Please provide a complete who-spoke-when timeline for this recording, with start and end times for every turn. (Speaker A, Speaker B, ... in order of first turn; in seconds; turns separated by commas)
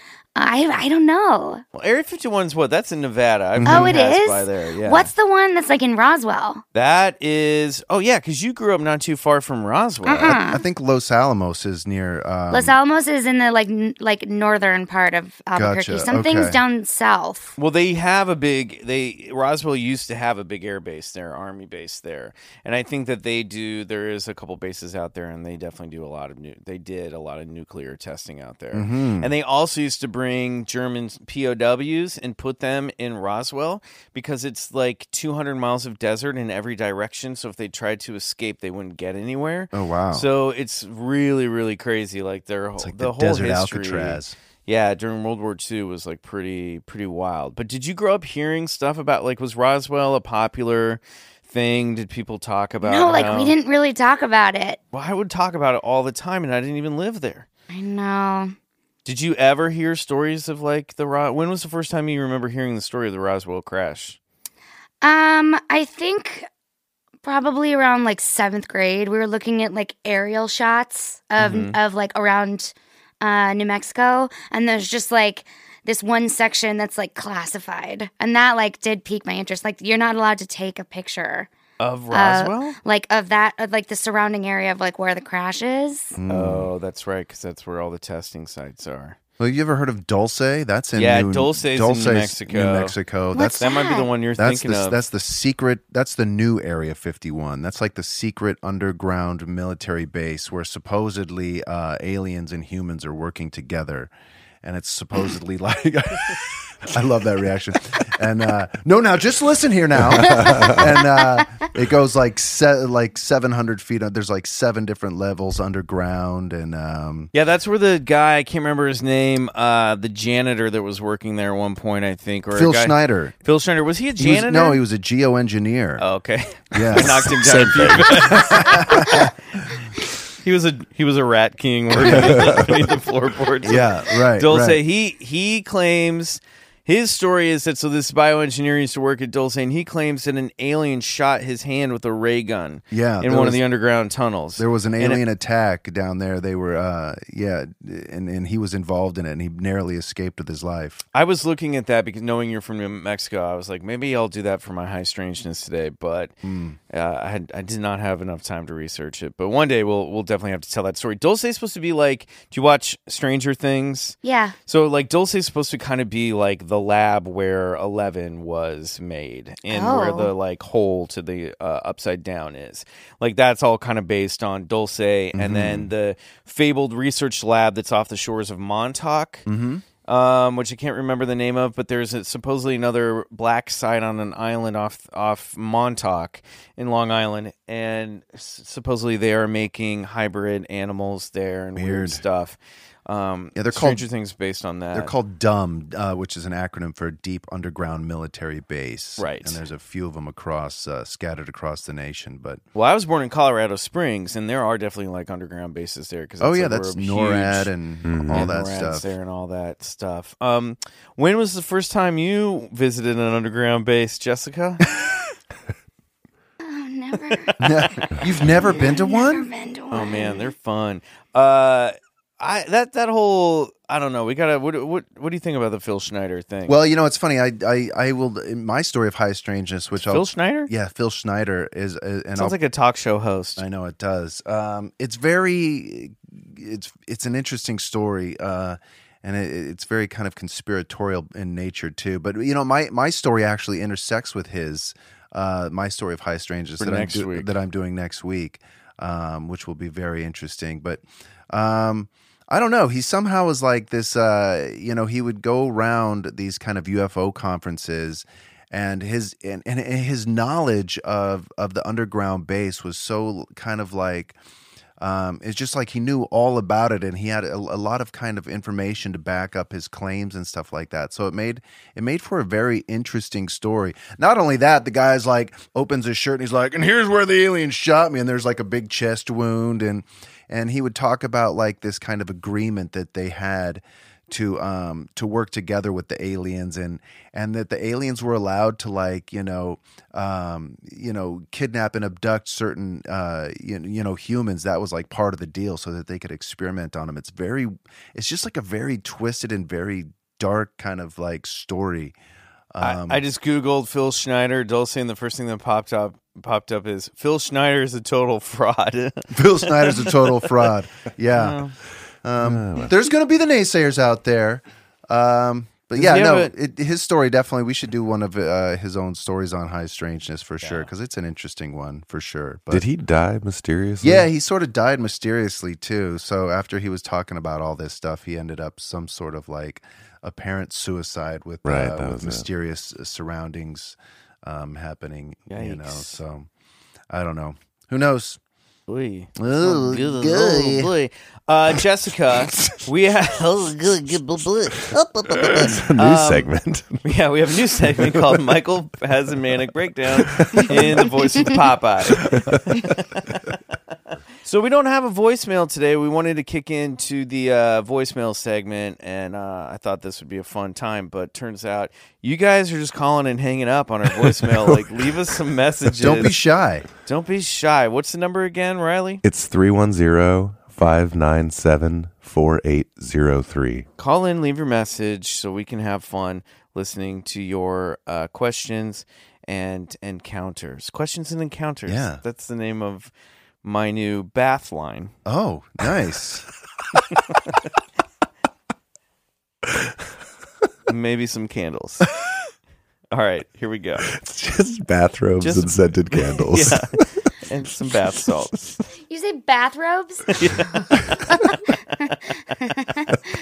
Speaker A: 0.4-1.6, Speaker B: 1.8-5.1, Speaker C: 3.6-4.0, Speaker A: 3.7-6.6, Speaker B: 6.7-10.4, Speaker A: 10.1-10.6, Speaker C: 10.3-12.8, Speaker A: 12.5-17.6, Speaker C: 15.6-16.6, Speaker B: 17.6-53.5, Speaker C: 28.7-29.3, Speaker C: 39.7-40.3, Speaker C: 42.8-44.4, Speaker A: 52.8-54.8, Speaker B: 54.9-57.5, Speaker A: 57.7-58.5, Speaker B: 59.0-64.2, Speaker A: 65.0-66.5, Speaker A: 67.2-81.5, Speaker B: 71.4-71.8, Speaker B: 81.8-82.8, Speaker A: 82.1-86.2, Speaker C: 86.2-86.7, Speaker B: 86.3-89.2, Speaker C: 89.4-93.6, Speaker B: 91.0-93.0, Speaker A: 93.3-94.1, Speaker B: 93.6-95.0, Speaker C: 94.4-104.1, Speaker C: 104.6-117.3, Speaker D: 110.2-110.8, Speaker A: 110.4-110.8, Speaker B: 117.3-124.8, Speaker C: 122.5-123.3, Speaker C: 124.2-126.0, Speaker B: 126.0-129.3, Speaker C: 126.7-129.3, Speaker D: 127.2-128.2, Speaker B: 130.4-145.2, Speaker C: 131.9-132.8, Speaker C: 133.6-134.8, Speaker C: 142.9-143.6, Speaker C: 144.6-151.0, Speaker B: 151.1-156.3, Speaker C: 156.4-156.8, Speaker B: 156.9-164.2, Speaker A: 164.2-164.6, Speaker B: 164.7-179.5, Speaker A: 169.7-170.3, Speaker C: 175.3-175.9, Speaker C: 179.5-179.8, Speaker B: 180.1-195.1, Speaker C: 191.8-192.2, Speaker C: 193.6-194.1, Speaker C: 194.9-202.6, Speaker B: 199.2-199.6, Speaker B: 202.7-207.7, Speaker C: 206.4-209.1, Speaker D: 208.1-208.5, Speaker B: 208.3-214.9, Speaker A: 216.6-220.5, Speaker C: 217.6-219.5, Speaker B: 219.9-226.8, Speaker C: 226.7-232.6, Speaker B: 230.0-230.7, Speaker B: 232.4-233.6, Speaker C: 233.6-264.4, Speaker B: 246.8-247.5, Speaker C: 265.0-302.2, Speaker C: 302.7-303.2, Speaker B: 302.8-310.5, Speaker C: 309.3-311.6, Speaker B: 311.3-311.8, Speaker C: 312.2-322.9, Speaker D: 312.4-312.9, Speaker B: 315.9-316.5, Speaker B: 320.6-320.9, Speaker D: 322.7-324.3, Speaker C: 324.0-336.5, Speaker D: 331.6-332.5, Speaker B: 335.5-336.2, Speaker C: 337.1-338.4, Speaker B: 338.9-346.5, Speaker C: 339.4-340.9, Speaker D: 344.9-347.1, Speaker B: 347.0-353.6, Speaker D: 347.8-348.4, Speaker D: 350.2-351.6, Speaker D: 352.1-352.6, Speaker B: 354.4-366.4, Speaker C: 366.0-366.9, Speaker B: 367.1-369.2, Speaker D: 369.2-373.9, Speaker B: 374.0-383.1, Speaker C: 381.9-382.2, Speaker B: 383.6-385.1, Speaker C: 385.2-386.5, Speaker B: 387.1-387.5, Speaker B: 390.9-392.1, Speaker B: 393.1-394.1, Speaker D: 394.1-397.3, Speaker B: 395.4-398.8, Speaker D: 398.0-398.3, Speaker A: 399.1-401.6, Speaker B: 400.3-402.6, Speaker A: 402.6-403.1